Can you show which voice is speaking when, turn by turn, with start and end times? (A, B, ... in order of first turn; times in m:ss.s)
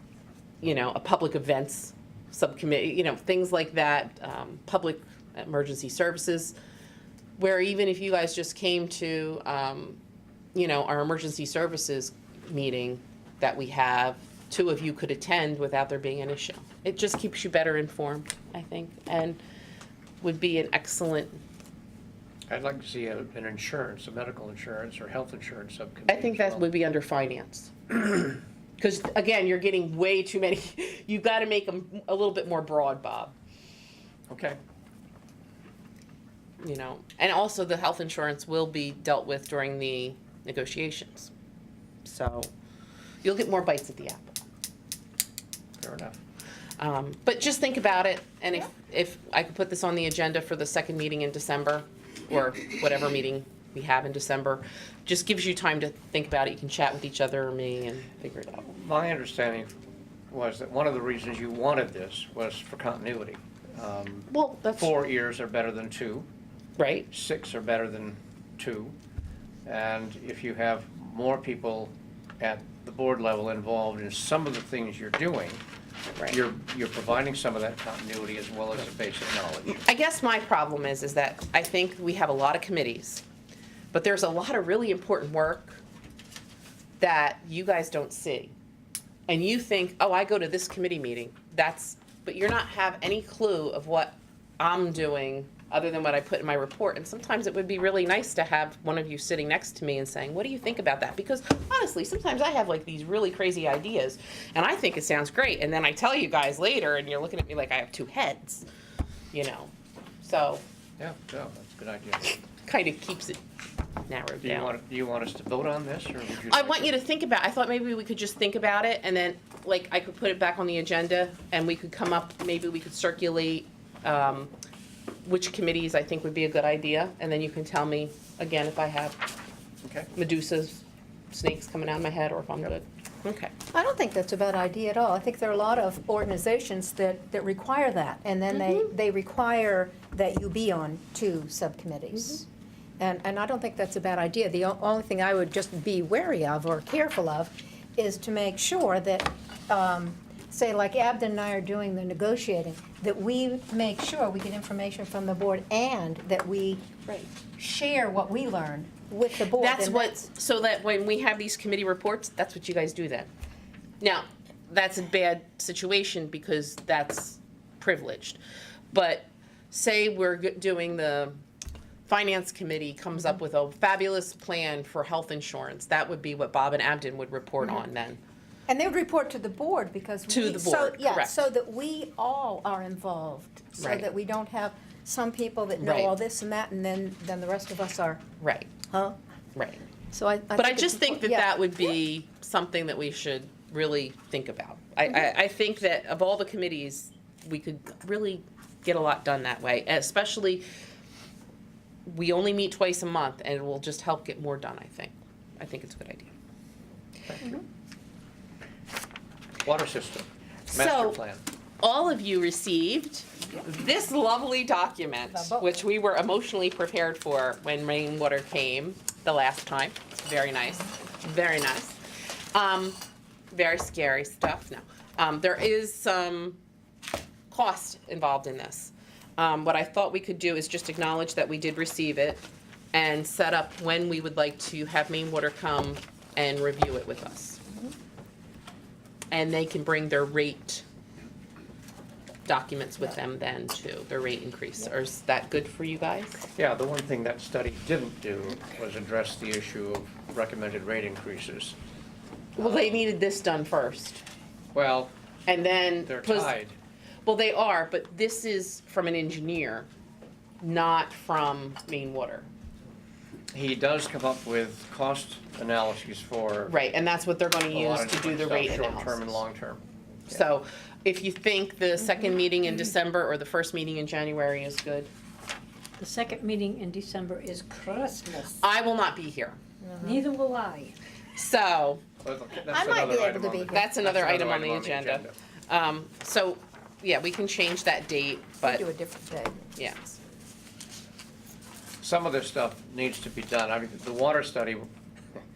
0:00.6-0:06.5 A
0:07.4-0:10.0 A
0:10.5-0:19.4 A
0:20.2-0:21.4 A
0:22.5-0:26.7 B
0:26.1-0:33.3 A
0:34.3-0:34.6 B
0:36.6-0:41.3 A
0:42.0-0:42.5 A
0:43.2-0:44.4 A
0:45.8-0:46.2 B
0:46.8-0:58.6 A
0:58.6-0:59.7 B
1:00.3-1:06.3 B
1:04.3-1:04.9 A
1:06.8-1:07.1 A
1:07.1-1:09.0 B
1:09.6-1:15.6 B
1:16.3-1:19.8 B
1:19.7-1:23.2 A
1:23.9-1:25.8 A
1:27.0-1:28.5 A
1:29.3-1:48.6 A
1:49.3-1:50.6 A
1:51.0-1:52.3 B
1:52.3-1:53.4 A
1:54.1-1:54.7 A
1:54.4-1:57.0 B
1:56.5-2:04.5 A
2:05.2-2:09.2 A
2:09.8-2:10.1 B
2:10.1-2:13.5 A
2:13.7-2:22.5 C
2:23.0-2:36.9 C
2:37.5-2:40.2 C
2:39.6-2:43.3 A
2:44.0-2:48.4 A
2:48.9-2:51.4 A
2:52.1-2:58.2 A
2:58.7-3:08.2 C
3:00.3-3:01.4 A
3:03.8-3:04.1 A
3:05.8-3:06.1 A
3:08.4-3:08.7 A
3:08.9-3:09.2 C
3:09.6-3:09.8 A
3:10.1-3:11.7 C
3:10.6-3:20.6 A
3:22.0-3:26.3 A
3:29.6-3:31.4 B
3:30.7-3:31.2 A
3:31.8-3:42.0 A
3:35.3-3:35.8 C
3:42.5-3:43.0 A
3:43.5-3:46.6 A
3:47.5-3:57.6 A
3:59.3-4:00.8 A
4:02.4-4:06.4 A
4:06.5-4:11.8 B
4:12.6-4:14.2 A
4:12.6-4:13.0 B
4:14.7-4:15.1 B
4:15.5-4:16.5 A
4:16.0-4:16.8 B
4:17.2-4:19.9 A
4:20.6-4:22.5 A
4:23.5-4:26.8 B
4:26.7-4:29.4 A
4:27.7-4:30.4 B
4:30.3-4:35.1 A
4:36.0-4:38.6 D
4:38.6-4:39.6 A
4:39.8-4:40.2 C
4:40.0-4:40.9 D
4:41.4-4:42.0 A
4:42.2-4:45.3 B
4:42.7-4:43.9 C
4:43.7-4:48.8 A
4:48.6-4:49.7 C
4:49.8-4:50.2 A
4:52.0-4:54.9 B